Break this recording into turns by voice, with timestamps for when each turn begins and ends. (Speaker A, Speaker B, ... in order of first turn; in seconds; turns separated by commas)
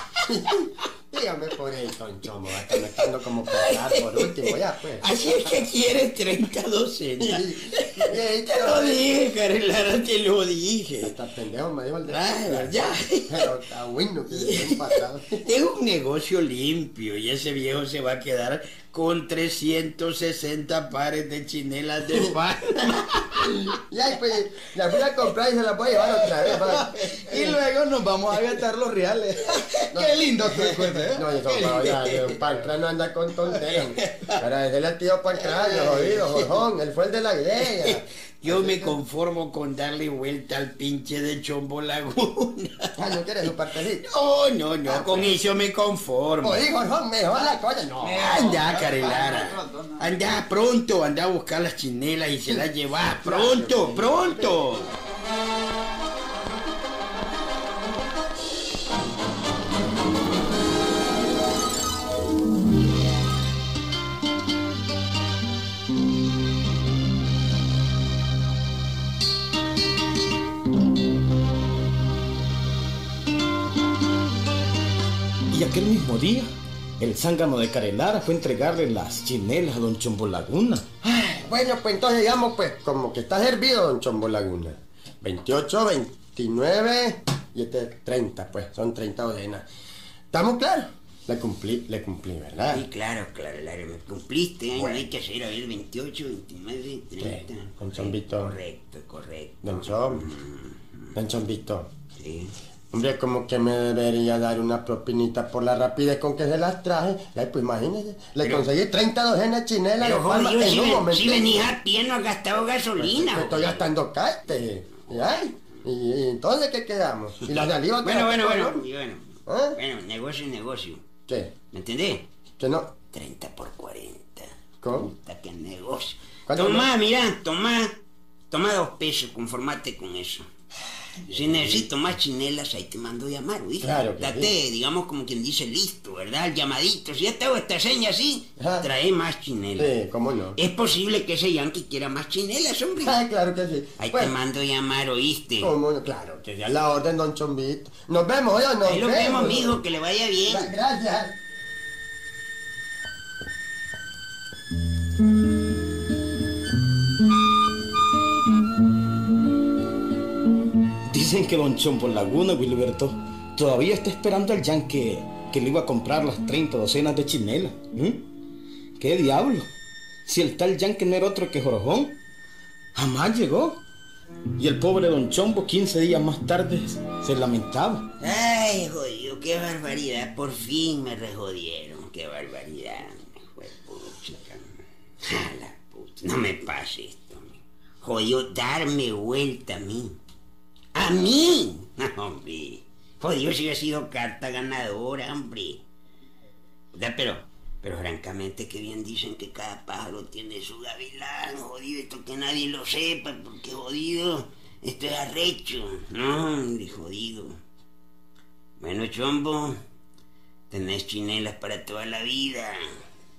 Speaker A: 0.3-5.1, Speaker B: 5.1-5.7, Speaker C: 5.8-7.0, Speaker A: 7.2-9.0, Speaker B: 8.5-9.1, Speaker C: 9.4-11.1, Speaker A: 11.0-15.5, Speaker B: 12.3-12.7, Speaker C: 15.4-23.0, Speaker A: 23.7-26.9, Speaker D: 26.7-32.1, Speaker A: 29.9-38.9, Speaker C: 38.4-42.9, Speaker A: 43.0-44.0, Speaker C: 44.0-46.6, Speaker A: 44.9-45.3, Speaker A: 46.4-48.5, Speaker D: 48.0-50.0, Speaker C: 48.1-54.9, Speaker A: 53.2-54.6, Speaker E: 75.5-80.8, Speaker A: 81.0-89.6, Speaker A: 90.3-92.8, Speaker B: 92.7-100.8, Speaker A: 94.8-95.0, Speaker A: 97.2-98.5, Speaker A: 99.6-100.3, Speaker A: 101.1-101.9, Speaker B: 102.2-102.5, Speaker A: 102.9-111.7, Speaker B: 108.4-108.7, Speaker B: 110.0-113.9, Speaker A: 113.0-118.8, Speaker B: 117.5-121.0, Speaker A: 119.5-119.8, Speaker B: 121.7-122.2, Speaker A: 122.6-122.9, Speaker B: 123.1-127.9, Speaker A: 124.8-125.1, Speaker A: 126.5-126.9, Speaker B: 128.5-130.4, Speaker B: 131.3-139.9, Speaker A: 131.3-131.8, Speaker A: 133.8-134.5, Speaker A: 138.6-138.9, Speaker A: 139.8-140.6, Speaker B: 140.6-143.2, Speaker A: 143.0-144.3, Speaker B: 144.0-145.7, Speaker A: 145.6-149.7, Speaker B: 148.8-150.7, Speaker A: 150.4-151.3, Speaker E: 161.1-168.2, Speaker E: 169.0-169.7, Speaker E: 170.2-172.1, Speaker E: 172.9-173.8, Speaker E: 174.6-178.1, Speaker B: 178.2-184.7, Speaker B: 185.2-190.2, Speaker B: 190.9-195.8, Speaker B: 196.9-207.6, Speaker B: 208.8-209.8, Speaker B: 210.7-212.8